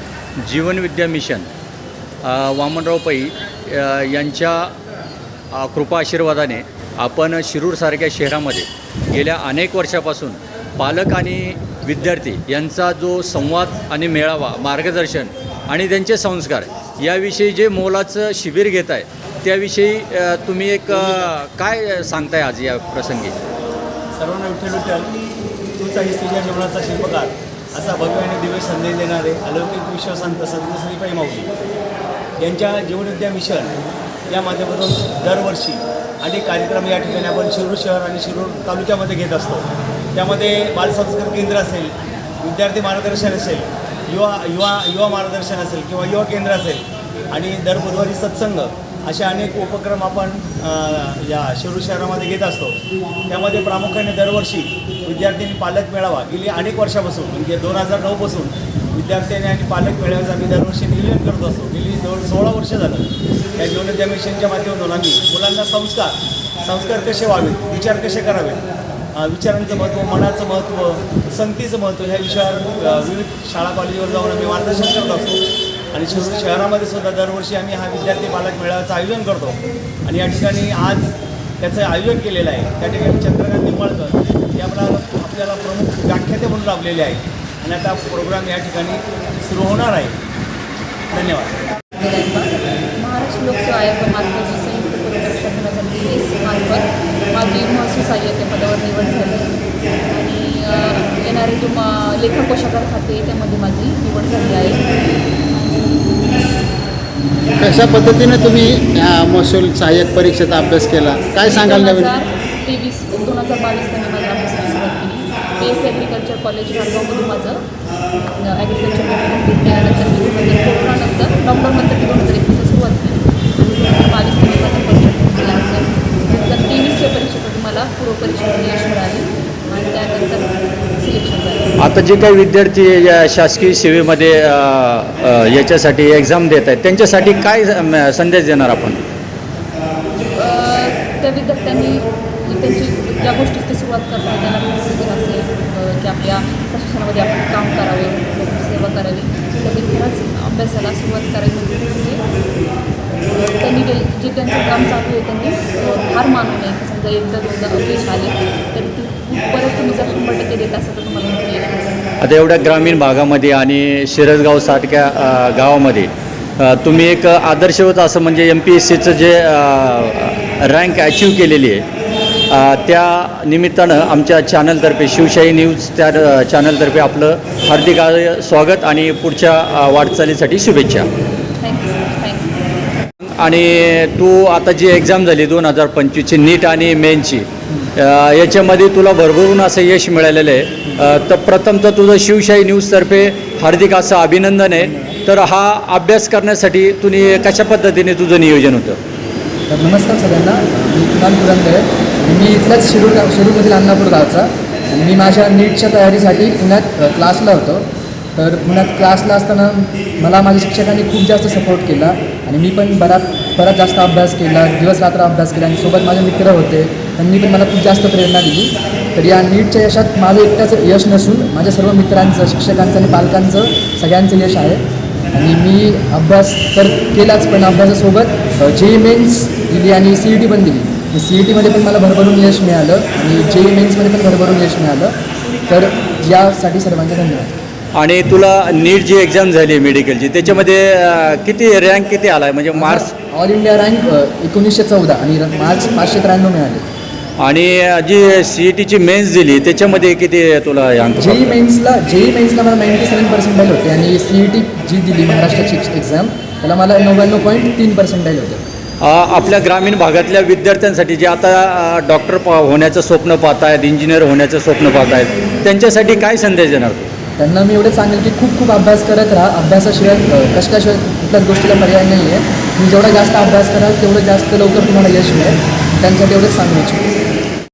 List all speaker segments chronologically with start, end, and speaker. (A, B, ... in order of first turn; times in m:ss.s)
0:00.4-0:01.5 A
0:02.2-0:04.7 A
0:05.5-0:23.4 A
0:24.2-0:25.1 B
0:25.8-0:31.5 B
0:32.4-0:33.7 B
0:34.3-1:30.2 B
1:31.1-1:31.6 B
1:32.0-1:39.6 C
1:40.1-1:44.8 C
1:45.7-1:45.9 C
1:47.6-1:52.2 D
1:51.4-1:57.6 C
1:58.3-2:11.7 C
2:11.8-2:19.0 A
2:20.2-2:32.2 C
2:33.4-2:42.0 C
2:42.2-2:51.9 A
2:52.5-3:01.1 A
3:01.6-3:02.6 C
3:03.2-3:19.0 A
3:14.8-3:15.2 E
3:19.7-3:27.8 E
3:28.4-3:44.8 E
3:45.3-3:55.1 E
3:55.7-3:57.5 E
3:58.0-4:03.1 A
4:02.7-4:06.9 E
4:07.4-4:11.6 A
4:11.2-4:18.6 E
4:19.0-4:27.1 A
4:27.4-4:37.0 E